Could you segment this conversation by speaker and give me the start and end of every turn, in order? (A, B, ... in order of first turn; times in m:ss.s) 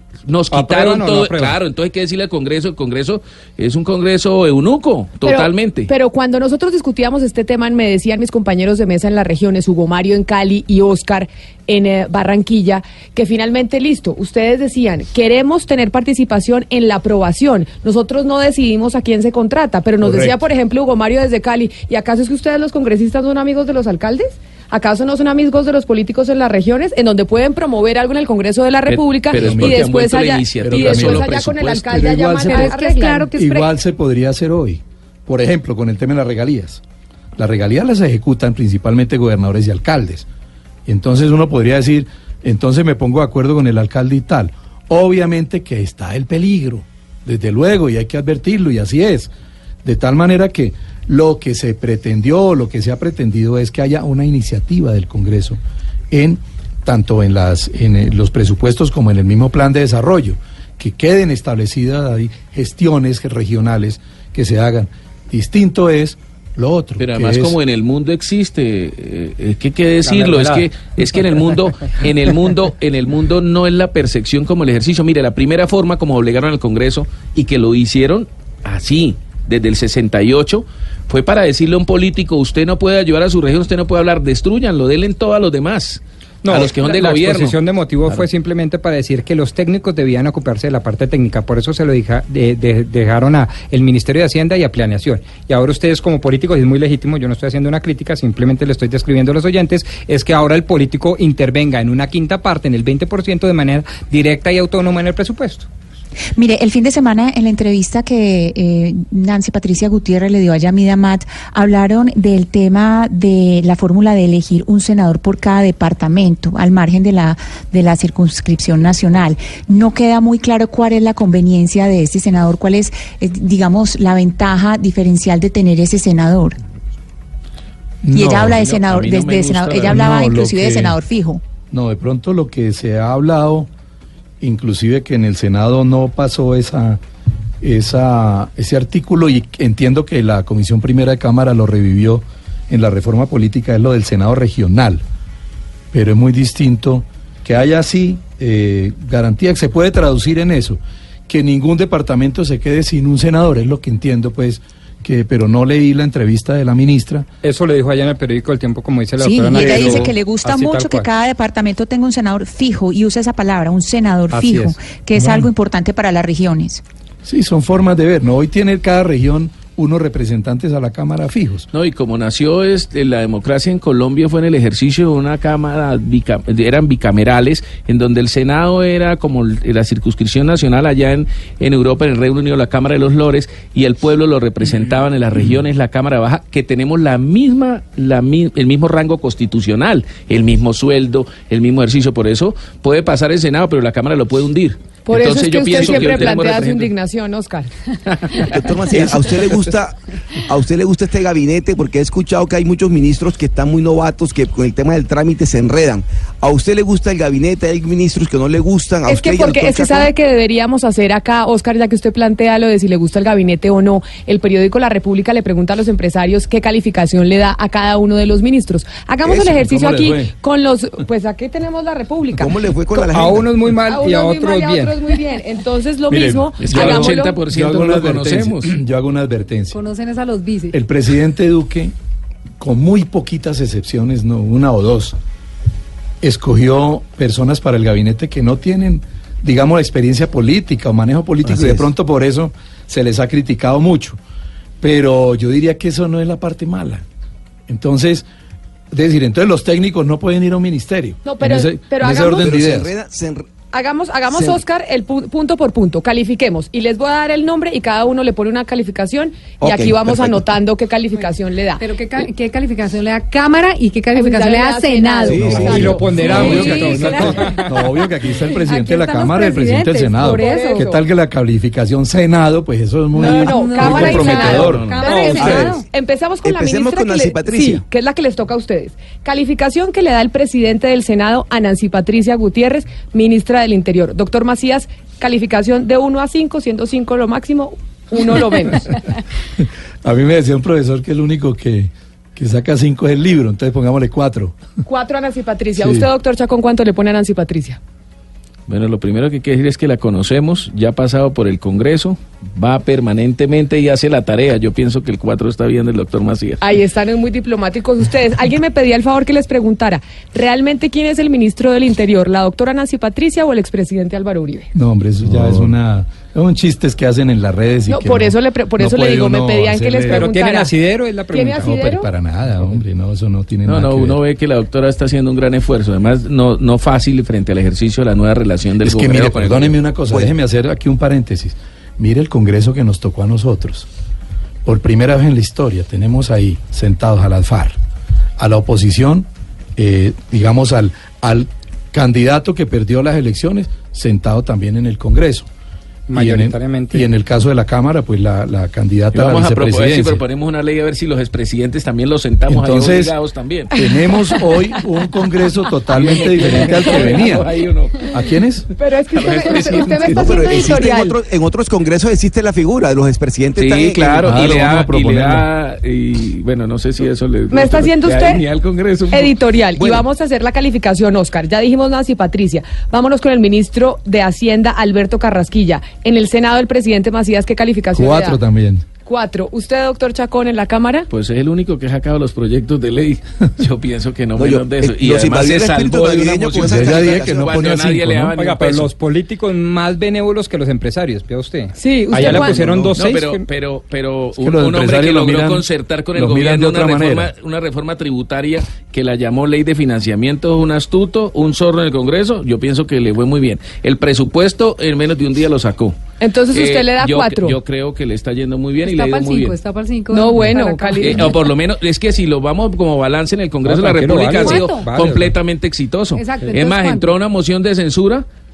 0:00.2-0:05.9 A
0:00.5-0:01.6 B
0:05.2-0:33.3 C
0:20.0-0:20.4 D
0:28.9-0:32.2 A
0:29.3-0:29.9 D
0:30.6-0:32.7 D
0:32.4-0:33.7 E
0:33.3-0:36.8 D
0:37.4-0:40.2 D
0:40.8-0:49.3 D
0:49.8-0:55.6 D
0:56.1-1:07.6 D
1:07.0-1:27.6 A
1:10.1-1:10.7 B
1:26.4-1:45.7 B
1:46.4-2:06.6 F
2:08.0-2:08.6 D
2:08.1-2:11.4 F
2:08.4-2:10.0 A
2:09.8-2:11.0 D
2:11.7-2:13.7 D
2:14.4-2:17.0 D
2:17.6-2:25.0 D
2:25.9-2:37.3 D
2:37.4-2:41.1 B
2:39.2-2:46.8 F
2:39.5-2:40.1 D
2:44.3-2:45.5 D
2:47.2-2:51.7 D
2:51.7-3:16.9 A
3:15.0-3:17.7 C
3:18.4-3:30.1 G
3:29.0-3:43.2 C
3:39.2-3:40.3 D
3:42.3-3:43.5 G
3:43.1-3:44.9 B
3:43.8-3:47.4 C
3:46.1-3:49.8 D
3:46.6-3:48.8 A
3:49.7-3:50.8 E
3:50.7-3:51.9 D
3:52.6-3:55.2 D
3:56.2-4:04.2 D
4:01.5-4:01.8 G
4:04.8-4:07.0 D
4:07.7-4:08.2 D
4:08.9-4:12.9 D
4:11.2-4:12.6 C
4:12.2-4:13.5 G
4:13.7-4:21.9 C
4:14.3-4:14.6 G
4:19.6-4:20.4 G
4:21.8-4:30.9 E
4:24.1-4:27.2 C
4:25.2-4:26.0 G
4:25.3-4:35.7 D
4:25.6-4:27.7 B
4:26.3-4:26.6 A
4:30.2-4:31.0 C
4:33.1-4:49.0 C
4:33.2-4:35.8 E
4:34.2-4:35.1 A
4:35.1-4:35.7 B
4:36.4-4:37.8 G
4:49.6-4:54.6 D
4:54.8-4:57.8 C
4:55.8-4:56.1 D
4:58.7-5:06.6 A
5:06.6-5:14.7 C
5:14.7-5:20.3 D
5:17.9-5:20.8 C
5:20.1-5:21.8 B
5:21.3-5:22.1 C
5:21.6-5:24.2 D
5:23.6-5:29.8 A
5:28.8-5:33.9 D
5:34.6-5:37.8 D
5:38.4-5:45.5 D
5:46.1-5:47.1 B
5:46.1-5:50.2 D
5:49.1-5:53.7 A
5:52.5-5:53.1 D
5:53.7-5:57.5 D
5:53.7-5:54.6 C
5:55.9-5:58.2 A
5:58.1-5:58.7 D
5:58.8-6:01.2 C
5:59.1-6:00.6 A
5:59.4-6:04.4 G
6:03.6-6:09.4 A
6:04.2-6:05.5 D
6:07.5-6:08.4 C
6:09.1-6:18.4 C
6:09.8-6:10.0 G
6:17.9-6:18.8 D
6:19.0-6:21.1 C
6:21.1-6:28.9 A
6:24.4-6:27.6 G
6:26.4-6:28.3 D
6:28.4-6:33.4 B
6:31.8-6:32.9 C
6:32.2-6:32.7 D
6:33.0-6:45.9 A
6:34.4-6:37.3 D
6:46.2-6:47.6 C
6:46.5-6:49.5 A
6:48.8-6:51.4 E
6:50.1-6:51.4 C
6:51.0-6:58.2 A
6:53.6-6:55.3 B
6:54.4-6:54.9 E
6:56.1-6:57.1 E